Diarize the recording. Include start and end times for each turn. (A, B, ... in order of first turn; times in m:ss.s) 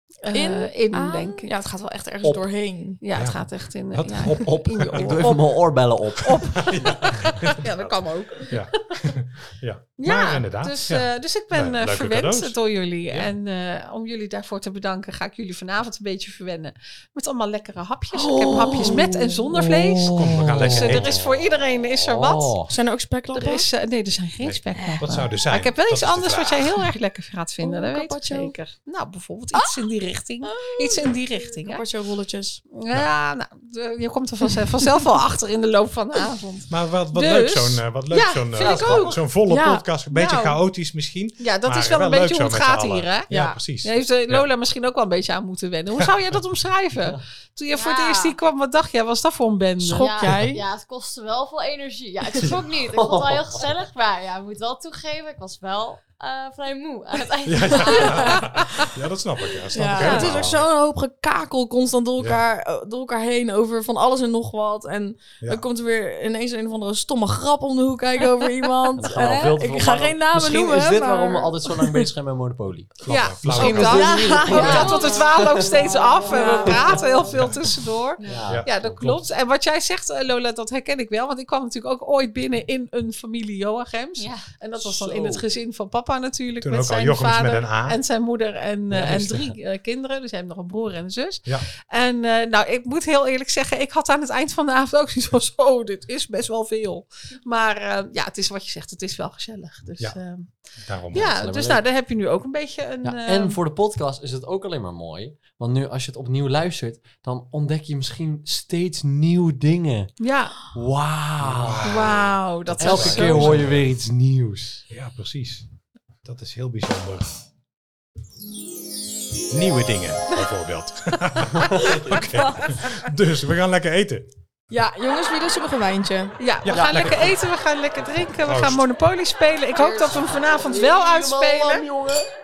0:00.2-0:01.5 A
0:00.3-0:03.0 B
0:03.0-0:05.3 A
0:03.1-0:05.2 C
0:04.5-0:07.2 D
0:06.2-0:08.9 A
0:06.6-0:12.6 C
0:10.0-0:20.1 A
0:18.1-0:19.4 B
0:18.6-0:19.0 D
0:19.5-0:21.2 D
0:20.1-0:21.2 C
0:20.6-0:22.5 A
0:22.0-0:22.7 D
0:22.7-0:23.6 B
0:23.3-0:31.8 A
0:24.4-0:26.8 C
0:25.0-0:25.3 B
0:27.6-0:28.5 B
0:29.5-0:29.9 B
0:30.4-0:32.6 B
0:32.7-0:39.2 A
0:36.7-0:44.5 C
0:38.6-0:39.2 D
0:39.5-0:39.8 B
0:40.1-0:40.6 A
0:41.4-0:43.3 A
0:43.3-0:43.6 B
0:43.8-0:50.4 A
0:47.7-0:48.4 E
0:49.8-0:50.6 B
0:49.8-0:58.9 E
0:52.2-0:52.5 B
0:52.9-0:53.6 D
0:57.4-1:00.6 C
0:59.7-1:11.9 B
1:00.0-1:00.2 E
1:00.0-1:00.4 A
1:09.0-1:17.0 D
1:13.0-1:14.3 C
1:13.0-1:40.5 A
1:13.8-1:14.9 B
1:14.4-1:17.2 E
1:16.3-1:16.9 B
1:17.3-1:17.6 C
1:18.2-1:18.5 E
1:18.2-1:19.2 D
1:24.8-1:25.4 D
1:26.6-1:28.0 C
1:28.9-1:29.4 D
1:28.9-1:29.4 C
1:40.8-1:41.4 C
1:41.1-1:43.6 A
1:41.1-1:41.8 D
1:43.0-1:50.1 D
1:50.2-1:50.7 A
1:50.6-1:52.2 D
1:51.4-1:53.9 C
1:51.8-1:53.7 A
1:52.8-1:54.8 D
1:54.9-1:55.6 C
1:56.2-1:57.3 C
1:59.5-2:04.2 C
2:01.6-2:02.2 D
2:02.4-2:02.9 A
2:04.7-2:06.3 B
2:06.4-2:11.8 A
2:06.6-2:07.4 C
2:06.7-2:07.2 D
2:08.4-2:08.8 C
2:09.8-2:12.2 D